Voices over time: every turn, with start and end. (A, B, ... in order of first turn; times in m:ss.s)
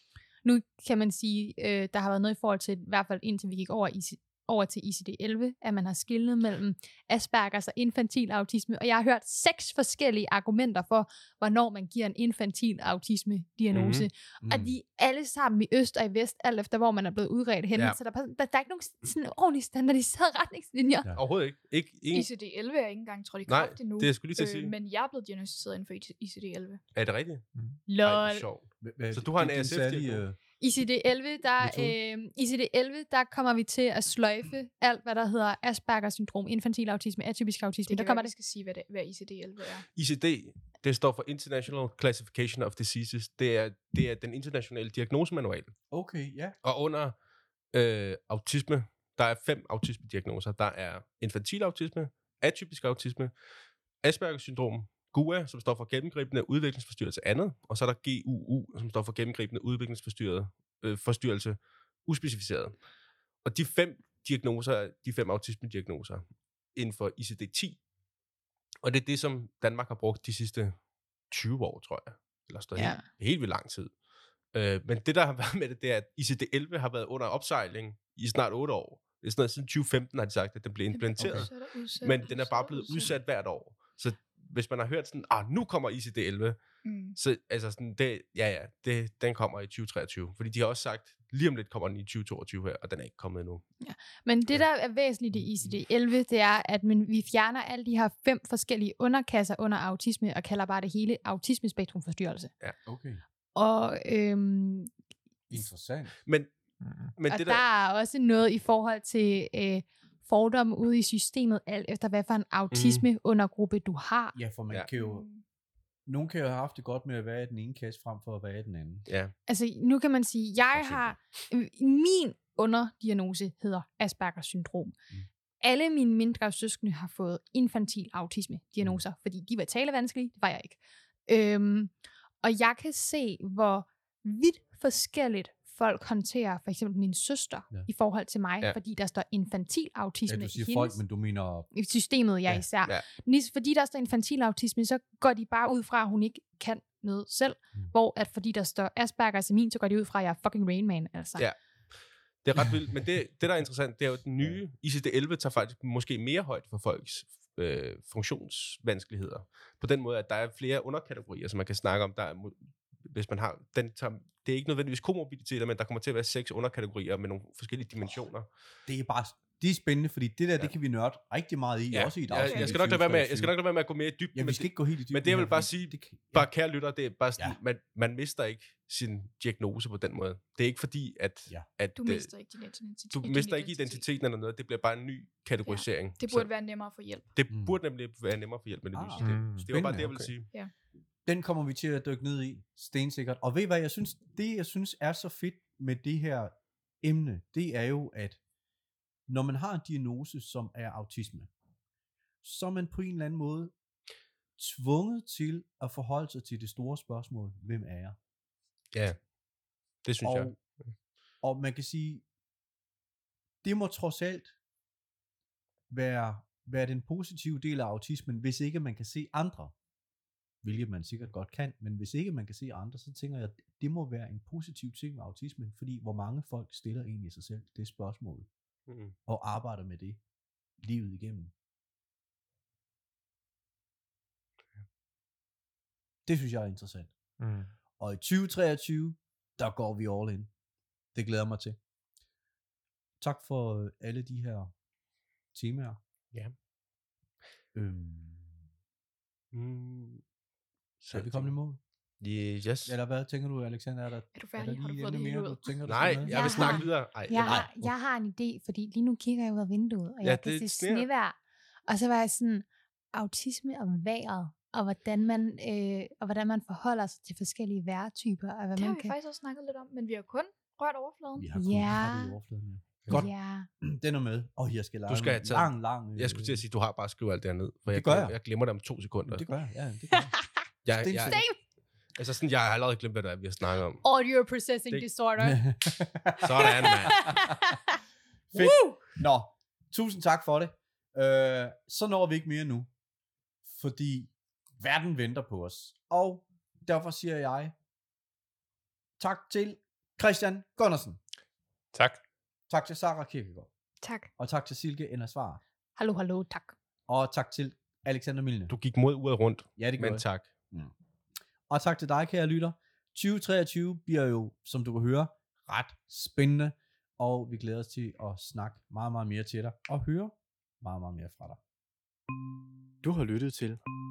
0:00.4-0:21.1 A
0:13.7-0:14.1 B
0:14.4-0:14.7 C
0:21.1-0:22.3 B
0:22.1-0:26.8 D
0:23.5-0:24.7 B
0:26.9-0:27.4 B
0:27.9-0:28.4 A
0:28.0-0:30.2 B
0:28.8-0:30.4 C
0:30.6-0:38.3 A
0:31.6-0:32.0 C
0:37.9-0:39.9 D
0:39.9-0:45.8 B
0:45.9-0:46.5 C
0:46.6-0:47.1 B
0:47.7-0:53.3 B
0:54.0-1:02.8 B
1:03.4-1:07.8 B
1:08.8-1:10.8 B
1:11.3-1:13.9 B
1:12.8-1:13.0 A
1:14.5-1:26.6 B
1:20.9-1:23.1 D
1:21.2-1:21.5 C
1:26.8-1:27.2 D
1:27.1-1:33.6 B
1:33.8-1:42.5 A
1:35.3-1:35.8 C
1:42.8-1:43.2 C
1:43.5-1:44.9 A
1:45.5-1:46.2 C
1:46.2-1:46.5 B
1:46.8-1:47.1 E
1:47.2-1:47.6 B
1:47.3-1:54.4 A
1:52.7-1:53.0 B
1:54.3-1:55.3 C
1:54.9-1:55.4 D
1:56.0-1:59.0 C
1:59.1-1:59.3 B
1:59.5-2:05.0 A
2:00.7-2:01.1 C
2:05.6-2:21.0 A
2:20.3-2:21.7 C
2:21.7-2:31.4 A
2:31.4-2:48.5 B
2:48.8-2:53.6 C
2:51.9-3:02.3 B
2:52.4-2:52.7 D
2:54.3-2:56.5 C
3:02.0-3:04.0 D
3:03.1-3:06.5 B
3:05.6-3:07.3 D
3:07.3-3:10.5 B
3:07.5-3:07.8 C
3:08.9-3:10.2 C
3:09.2-3:10.3 E
3:11.2-3:18.4 C
3:19.3-3:21.5 C
3:22.4-3:23.7 C
3:24.6-3:28.2 C
3:28.9-3:29.2 B
3:30.0-3:30.6 B
3:30.2-3:30.6 C
3:31.4-3:32.2 C
3:33.6-3:34.6 C
3:35.9-3:39.7 C
3:40.6-3:48.5 C
3:48.9-3:49.1 B
3:49.3-3:50.2 C
3:50.8-3:51.5 C
3:56.2-3:57.1 C
3:57.4-3:57.7 E
3:58.0-4:00.5 C
4:01.1-4:01.8 C
4:03.2-4:04.7 C
4:05.5-4:06.0 C
4:07.7-4:08.6 C
4:09.5-4:10.2 B
4:11.0-4:11.5 B
4:11.1-4:11.8 C
4:12.2-4:13.0 B
4:12.8-4:17.9 C
4:14.3-4:15.7 D
4:15.8-4:17.7 B
4:16.3-4:29.1 A
4:20.2-4:21.1 B
4:28.8-4:31.5 D
4:31.4-4:36.6 C
4:31.5-4:32.4 A
4:33.1-4:33.7 A
4:35.1-4:39.5 B
4:37.9-4:38.4 C
4:39.3-4:40.4 C
4:40.3-4:40.6 A
4:40.8-4:41.4 B
4:40.9-4:41.4 C
4:41.3-4:41.6 A
4:42.1-4:44.0 B
4:44.0-4:45.6 A
4:45.4-4:47.7 C
4:46.4-4:47.3 B
4:46.6-4:47.9 A
4:48.5-4:52.9 C
4:48.5-4:49.0 A
4:53.6-4:57.7 C
4:59.2-5:01.2 C
5:01.9-5:02.2 E
5:02.7-5:03.7 C
5:04.0-5:04.3 D
5:04.4-5:05.6 C
5:06.0-5:06.7 A
5:07.1-5:08.7 C
5:08.7-5:10.5 B
5:09.8-5:10.9 C
5:11.7-5:21.6 C
5:23.0-5:23.8 C